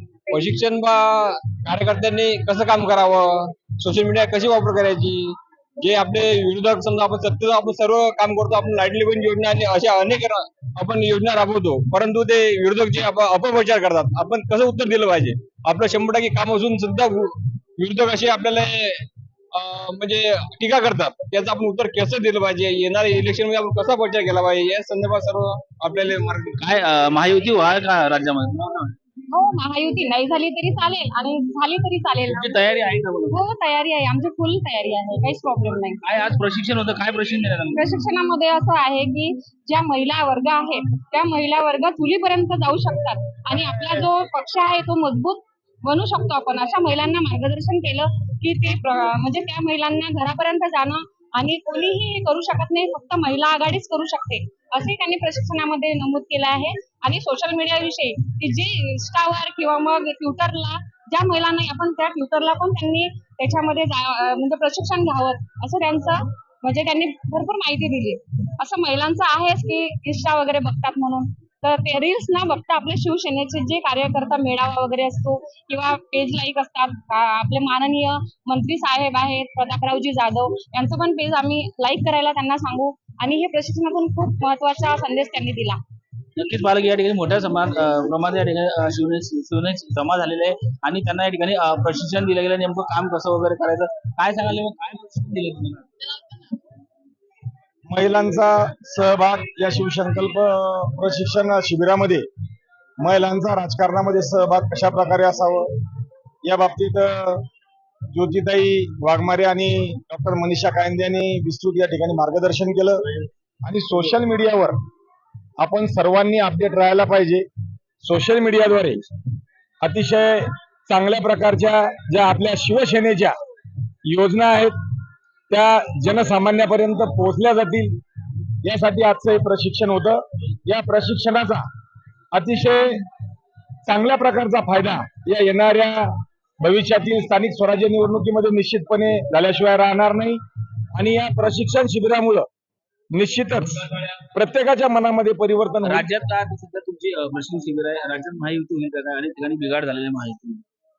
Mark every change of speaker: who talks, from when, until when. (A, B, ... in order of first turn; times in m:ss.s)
0:00.3-0:26.6 A
0:26.6-0:28.9 B
0:29.3-0:32.6 C
0:32.2-0:33.4 B
0:33.3-0:36.0 C
0:36.0-0:37.9 B
0:37.8-1:25.8 C
1:26.4-1:35.9 B
1:37.9-1:42.2 D
1:43.0-1:45.7 D
1:46.5-1:47.4 D
1:48.1-1:54.8 D
1:55.6-1:57.4 D
1:58.0-1:59.0 D
1:59.8-2:03.4 D
2:04.1-2:04.8 D
2:05.5-2:08.0 D
2:08.6-2:11.6 D
2:12.3-2:13.0 D
2:13.8-2:20.4 D
2:21.0-2:22.5 D
2:23.1-2:26.1 D
2:25.8-2:30.6 B